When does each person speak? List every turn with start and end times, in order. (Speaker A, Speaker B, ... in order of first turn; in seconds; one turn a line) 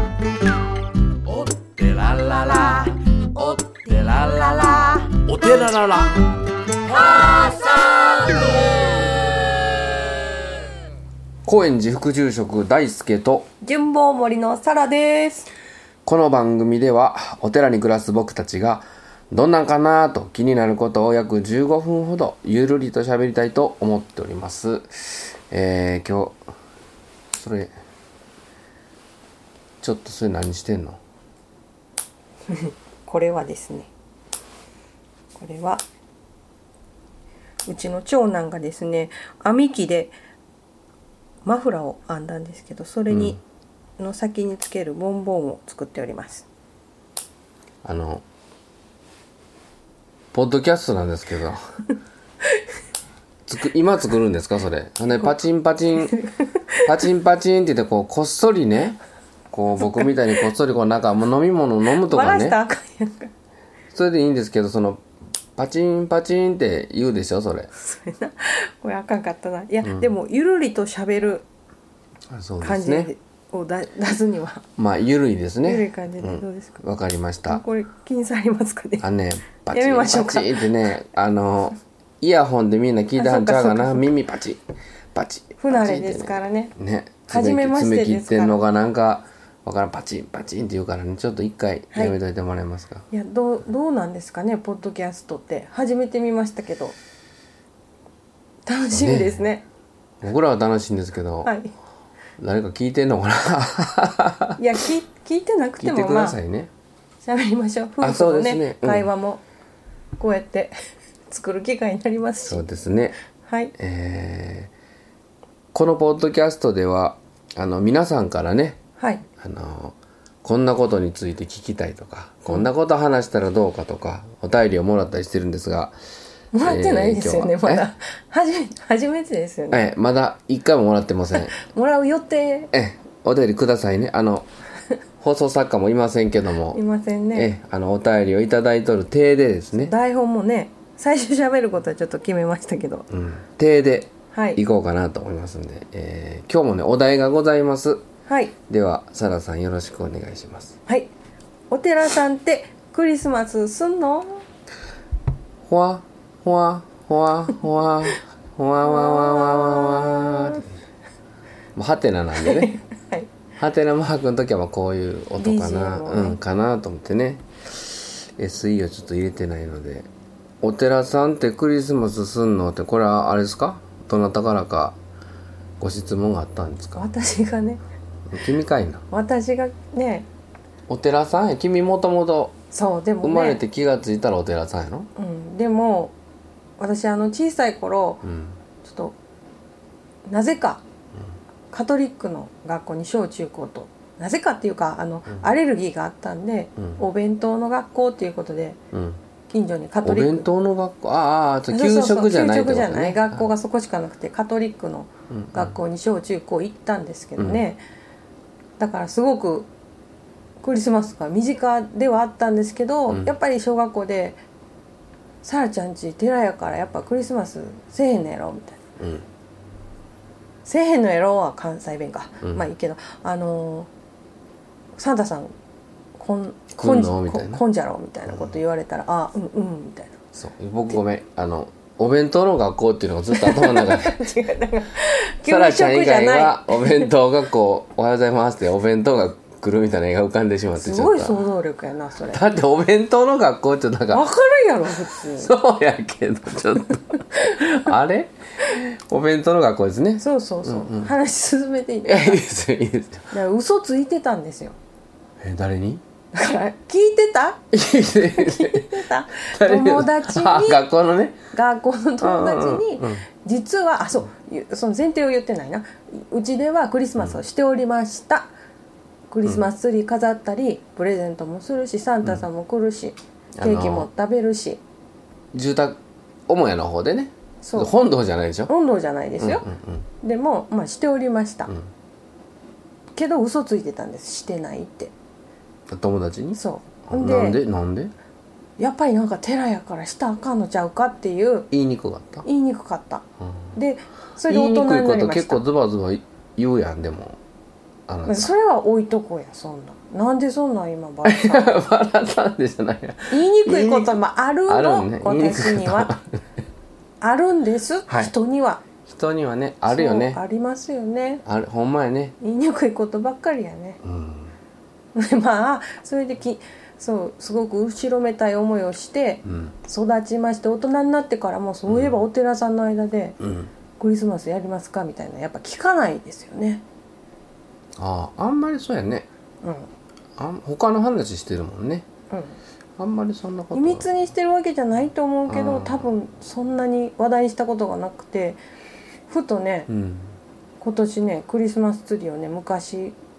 Speaker A: 1.2-6.3
Speaker A: 6.8-8.6
Speaker B: 11.4-13.5
Speaker C: 13.6-15.5
Speaker B: 16.0-26.4
Speaker B: 27.3-27.7
Speaker B: 29.8-31.0
Speaker C: 32.5-33.9
Speaker C: 35.4-35.8
Speaker C: 37.7-40.1
Speaker C: 41.4-43.4
Speaker B: 43.1-43.4
Speaker C: 44.0-46.5
Speaker B: 47.8-48.2
Speaker B: 50.3-51.6
Speaker B: 53.5-56.1
Speaker C: 56.0-57.0
Speaker B: 56.9-59.0
Speaker B: 59.5-62.6
Speaker C: 62.0-63.3
Speaker B: 63.9-65.0
Speaker B: 65.5-67.7
Speaker C: 67.7-71.5
Speaker B: 69.8-70.1
Speaker B: 72.3-73.1
Speaker C: 72.6-74.6
Speaker B: 74.8-77.6
Speaker C: 75.6-76.8
Speaker C: 77.5-79.0
Speaker B: 79.0-84.6
Speaker C: 79.7-80.7
Speaker C: 83.2-84.1
Speaker B: 85.1-93.0
Speaker C: 85.6-86.7
Speaker C: 87.3-88.6
Speaker C: 93.1-96.9
Speaker C: 98.7-99.6
Speaker B: 98.9-99.4
Speaker B: 100.2-101.5
Speaker C: 101.4-101.7
Speaker B: 102.4-104.6
Speaker C: 104.6-106.4
Speaker B: 105.8-106.7
Speaker C: 107.2-109.4
Speaker B: 108.0-109.1
Speaker C: 110.2-110.7
Speaker C: 111.3-112.7
Speaker B: 112.5-113.2
Speaker C: 113.4-113.7
Speaker B: 113.8-114.7
Speaker B: 115.7-118.8
Speaker C: 119.0-119.2
Speaker B: 119.4-126.0
Speaker C: 126.5-129.9
Speaker B: 126.6-127.9
Speaker B: 129.7-131.5
Speaker C: 131.3-132.7
Speaker B: 132.7-134.5
Speaker B: 135.2-136.8
Speaker C: 136.7-137.5
Speaker B: 137.3-139.9
Speaker C: 139.8-143.1
Speaker B: 143.1-148.0
Speaker C: 144.3-144.6
Speaker C: 148.2-148.5
Speaker B: 148.7-150.8
Speaker C: 151.7-154.4
Speaker B: 155.6-160.6
Speaker C: 158.8-160.6
Speaker B: 161.7-162.7
Speaker C: 162.4-163.3
Speaker B: 163.6-170.1
Speaker C: 165.4-166.4
Speaker B: 170.6-174.9
Speaker B: 175.8-177.1
Speaker C: 176.9-177.8
Speaker B: 178.3-179.0
Speaker C: 179.1-180.3
Speaker B: 180.9-182.6
Speaker C: 182.7-183.6
Speaker B: 183.2-185.1
Speaker C: 185.2-186.1
Speaker C: 186.8-188.2
Speaker B: 188.2-188.6
Speaker C: 188.8-189.2
Speaker C: 190.3-190.8
Speaker C: 191.7-198.8
Speaker B: 198.9-199.2
Speaker C: 199.5-200.5
Speaker B: 200.0-203.5
Speaker C: 201.7-207.8
Speaker B: 205.3-205.8
Speaker B: 207.4-207.6
Speaker C: 208.8-209.7
Speaker C: 210.6-214.4
Speaker C: 215.4-218.8
Speaker B: 219.0-219.3
Speaker C: 220.6-223.9
Speaker C: 225.0-225.5
Speaker C: 226.2-230.2
Speaker B: 226.7-227.6
Speaker B: 228.3-228.5
Speaker B: 230.3-234.2
Speaker C: 233.3-237.1
Speaker B: 235.4-241.4
Speaker C: 240.8-242.4
Speaker B: 242.3-244.2
Speaker C: 244.1-245.5
Speaker B: 245.2-251.1
Speaker C: 250.2-252.4
Speaker B: 252.1-253.3
Speaker C: 253.3-254.8
Speaker B: 255.4-256.0
Speaker C: 256.3-257.7
Speaker B: 257.7-261.4
Speaker C: 258.3-260.8
Speaker C: 261.5-268.5
Speaker B: 262.2-263.2
Speaker C: 269.3-274.8
Speaker B: 273.6-274.1
Speaker B: 275.5-278.7
Speaker C: 277.6-277.9
Speaker C: 278.7-279.7
Speaker B: 279.4-280.1
Speaker C: 280.2-281.7
Speaker C: 283.1-285.1
Speaker B: 285.9-288.1
Speaker C: 286.6-287.6
Speaker C: 288.8-291.7
Speaker B: 291.7-292.4
Speaker C: 292.4-293.2
Speaker C: 293.7-295.6
Speaker B: 294.4-297.4
Speaker B: 298.1-298.5
Speaker C: 298.3-301.7
Speaker B: 301.2-306.3
Speaker C: 303.3-306.2
Speaker C: 307.2-308.8
Speaker B: 309.0-310.4
Speaker C: 309.9-311.4
Speaker B: 311.4-312.3
Speaker C: 312.4-314.0
Speaker B: 314.0-314.5
Speaker C: 315.1-323.4
Speaker B: 319.4-319.7
Speaker B: 321.9-322.1
Speaker B: 323.4-323.7
Speaker C: 324.0-326.8
Speaker B: 327.9-329.3
Speaker C: 329.6-329.9
Speaker B: 330.4-332.1
Speaker C: 332.3-332.6
Speaker B: 333.0-334.1
Speaker C: 333.7-338.6
Speaker B: 335.5-336.1
Speaker C: 339.3-339.9
Speaker B: 339.9-340.3
Speaker C: 340.8-343.1